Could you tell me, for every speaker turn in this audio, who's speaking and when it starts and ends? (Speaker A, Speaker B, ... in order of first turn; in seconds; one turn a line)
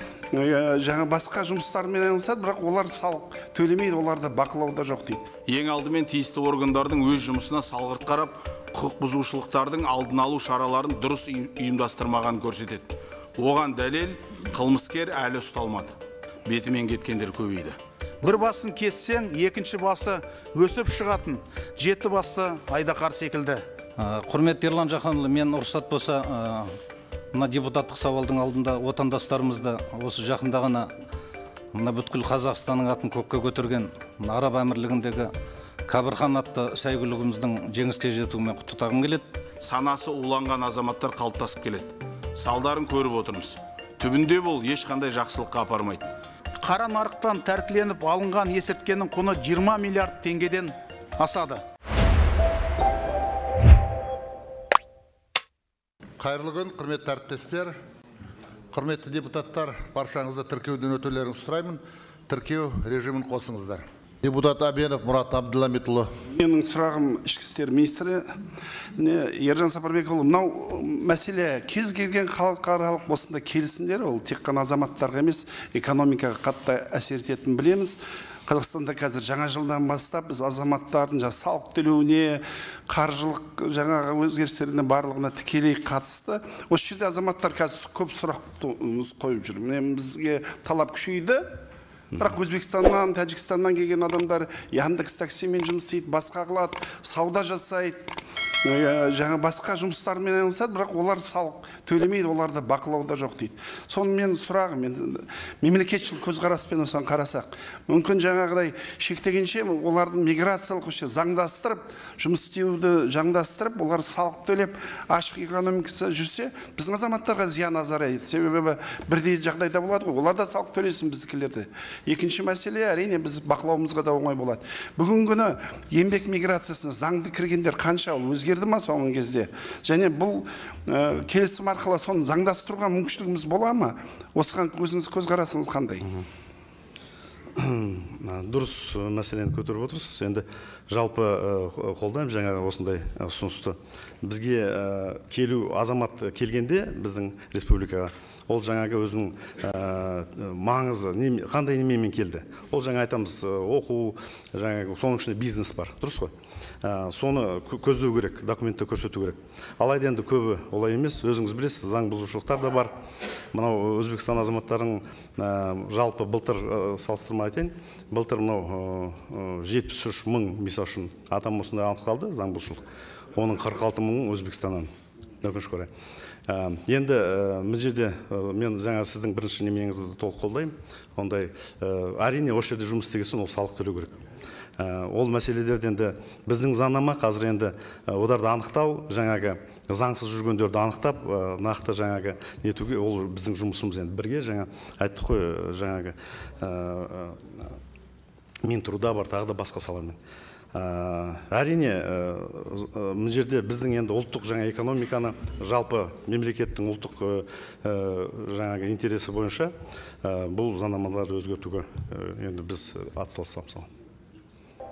Speaker A: 0.3-5.2
Speaker B: 5.5-15.9
Speaker B: 16.5-17.8
Speaker C: 18.2-23.6
Speaker D: 24.0-26.7
Speaker D: 27.3-30.9
Speaker D: 31.7-35.3
Speaker D: 35.9-39.3
Speaker B: 39.6-46.1
Speaker C: 46.6-51.6
Speaker E: 56.2-57.8
Speaker E: 58.7-66.1
Speaker A: 66.3-68.3
Speaker A: 69.0-91.6
Speaker A: 92.2-98.0
Speaker A: 98.6-136.0
Speaker F: 137.6-163.0
Speaker F: 163.5-172.8
Speaker F: 173.3-174.9
Speaker F: 175.4-175.9
Speaker F: 176.5-184.2
Speaker F: 184.8-197.7
Speaker F: 198.6-200.2
Speaker F: 200.7-213.9